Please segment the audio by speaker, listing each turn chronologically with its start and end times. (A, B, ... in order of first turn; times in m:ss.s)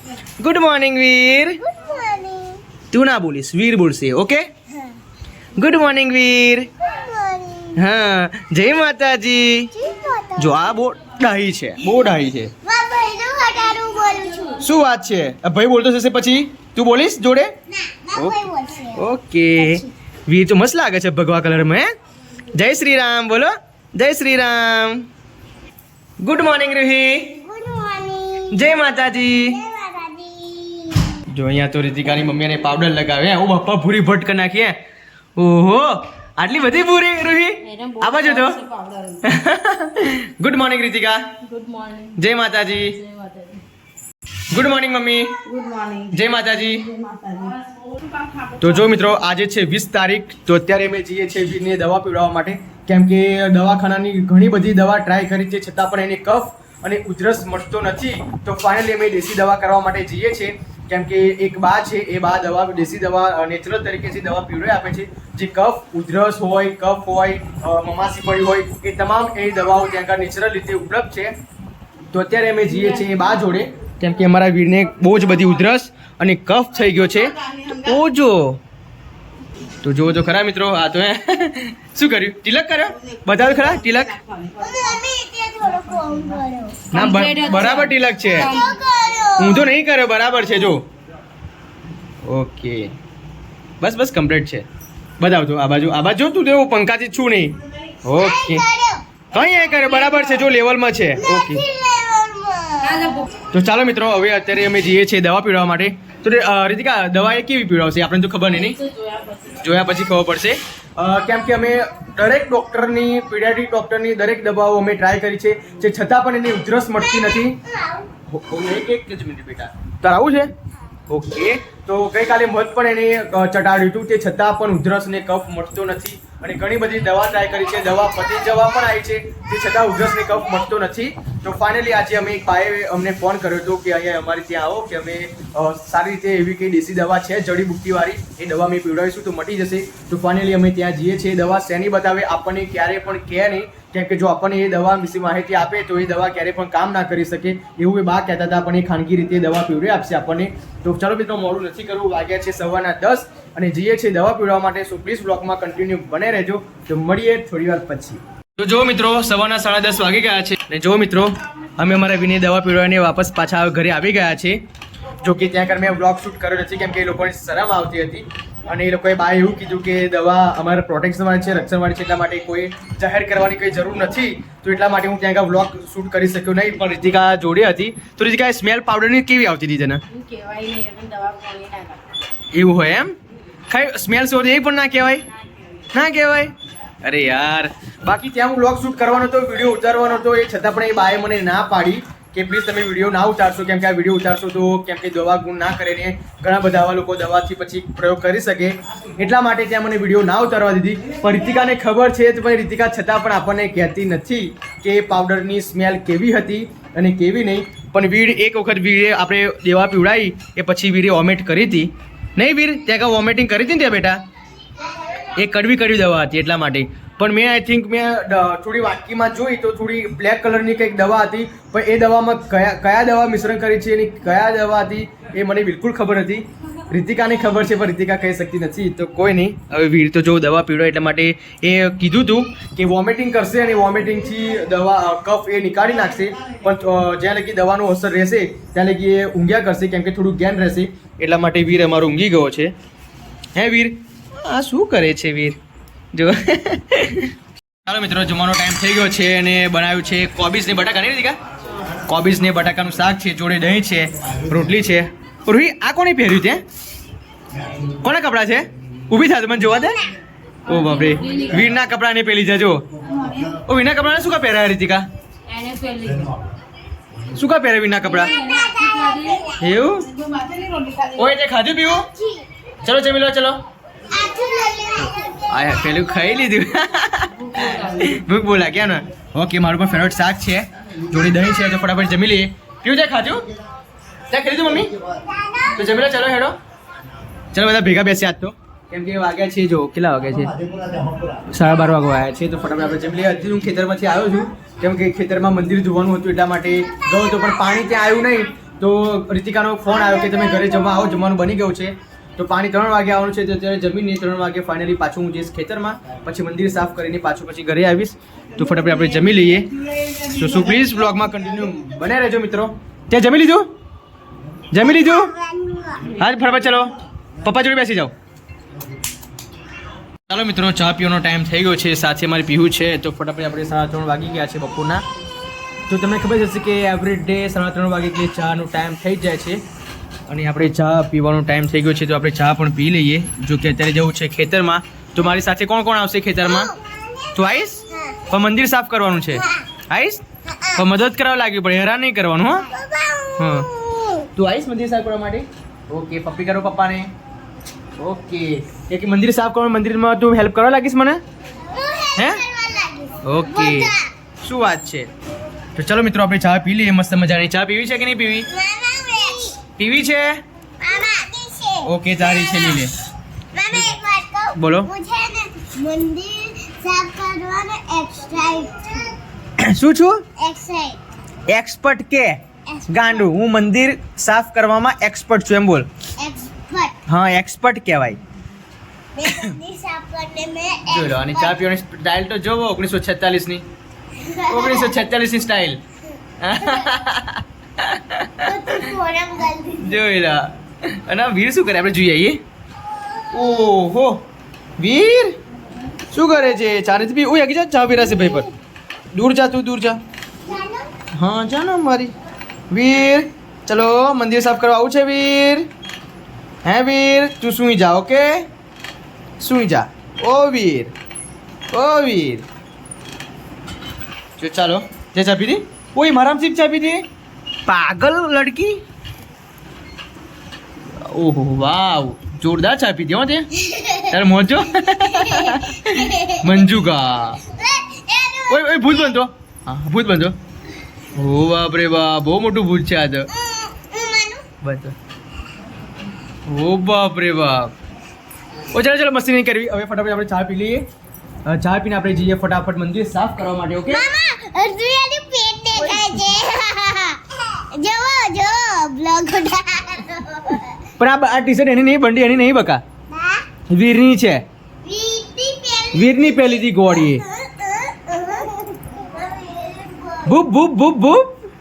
0:00.4-0:01.6 A
0:01.6-0:02.6 B
0:02.9-0:04.5 A
0:05.6-0:06.7 A
0:06.8-0:07.8 B
0:07.8-0:09.7 A
0:09.7-0:10.8 B
0:10.4-0:12.5 A
0:12.6-0:14.7 B
0:14.6-0:17.5 A
0:17.7-0:19.9 B
0:18.9-0:21.9 A
0:22.5-0:25.1 A
0:26.2-0:27.4 A
0:27.2-0:28.8 B
0:28.5-0:29.6 A
0:29.3-0:31.2 B
0:31.3-0:34.8 A
0:35.4-0:38.6 A
0:37.6-0:39.2 C
0:39.2-0:41.2 A
0:41.4-0:42.2 C
0:42.1-0:43.0 A
0:42.9-0:43.6 C
0:44.5-0:45.4 A
0:45.4-0:46.2 C
0:46.1-0:46.9 A
0:46.9-0:47.8 C
0:48.6-1:11.3 A
1:12.1-1:18.6 A
1:19.8-1:24.1 A
1:24.6-1:26.9 B
1:26.9-1:28.5 A
1:26.9-1:28.7 C
1:28.4-1:29.8 B
1:29.4-1:30.8 A
1:32.2-1:32.9 A
1:33.8-1:34.6 A
1:35.2-1:38.6 A
1:38.2-1:39.0 B
1:39.3-1:41.6 A
1:41.2-1:43.2 B
1:43.5-1:48.8 A
1:48.5-1:49.6 C
1:49.5-1:57.6 A
1:57.0-1:58.1 B
1:58.3-2:00.5 A
2:01.1-2:44.6 A
2:45.2-3:00.0 A
3:00.1-3:02.0 C
3:02.5-3:03.2 A
3:03.7-3:05.2 A
3:05.9-3:34.2 A
3:35.4-4:02.7 A
4:03.5-4:05.6 A
4:06.1-4:07.3 A
4:07.8-4:11.4 A
4:12.1-4:16.6 A
4:17.9-4:20.0 A
4:20.6-4:22.8 A
4:20.7-4:21.7 C
4:23.5-4:25.0 A
4:25.5-4:26.4 C
4:27.3-4:28.3 A
4:28.0-4:29.7 B
4:28.1-4:29.5 C
4:29.6-4:30.1 A
4:30.2-4:31.2 C
4:31.1-4:32.1 A
4:31.9-4:32.4 B
4:32.8-4:33.6 A
4:34.1-4:36.4 B
4:35.0-4:43.4 A
4:37.3-4:38.2 C
4:44.3-4:44.9 A
4:45.2-4:46.0 B
4:45.7-4:46.5 A
4:47.5-4:50.5 A
4:51.5-5:13.7 A
5:00.3-5:00.7 B
5:14.7-5:15.3 A
5:14.8-5:16.2 B
5:16.1-5:18.1 A
5:20.3-5:25.0 A
5:25.9-5:29.6 A
5:30.3-5:36.7 A
5:36.4-5:38.2 B
5:37.3-5:40.2 A
5:39.3-5:39.6 B
5:40.5-5:40.8 B
5:40.7-5:42.7 A
5:42.7-5:44.3 B
5:43.4-5:43.7 A
5:44.3-5:47.1 A
5:48.0-5:51.2 A
5:51.7-5:54.1 B
5:52.2-5:52.4 A
5:53.2-5:55.1 A
5:55.8-5:58.5 A
5:58.5-5:59.6 B
5:59.8-6:00.4 A
6:00.8-6:02.9 B
6:01.8-6:02.9 A
6:03.5-6:09.2 B
6:04.6-6:04.9 A
6:09.6-6:10.2 A
6:10.4-6:11.0 B
6:11.5-6:15.9 A
6:12.7-6:13.3 B
6:16.2-6:17.0 B
6:17.1-6:18.2 A
6:19.1-6:21.6 B
6:20.9-6:23.6 A
6:24.2-6:25.0 B
6:24.5-6:25.8 A
6:26.4-6:28.9 A
6:26.6-6:27.0 B
6:28.4-6:30.0 B
6:29.8-6:32.4 A
6:33.1-6:33.6 B
6:33.3-6:34.3 A
6:34.8-6:35.4 A
6:36.1-6:38.5 A
6:38.2-6:38.4 B
6:39.1-6:40.0 A
6:40.4-6:40.9 B
6:41.1-6:42.1 A
6:42.7-6:45.7 A
6:46.6-6:48.5 A
6:49.4-6:50.9 A
6:51.7-6:52.4 A
6:54.4-6:57.0 A
6:57.7-6:58.8 A
7:01.0-7:07.4 A
7:03.6-7:04.1 B
7:05.0-7:06.5 B
7:07.4-7:09.2 B
7:08.5-7:10.3 A
7:11.2-7:13.3 A
7:13.3-7:14.5 B
7:14.6-7:14.9 A
7:16.5-7:17.7 A
7:18.7-7:20.8 A
7:21.4-7:24.1 A
7:23.9-7:30.8 B
7:25.8-7:26.1 A
7:31.0-7:32.8 A
7:33.1-7:33.4 B
7:33.7-7:34.4 A
7:34.8-7:40.4 B
7:35.9-7:37.2 A
7:40.2-7:41.3 A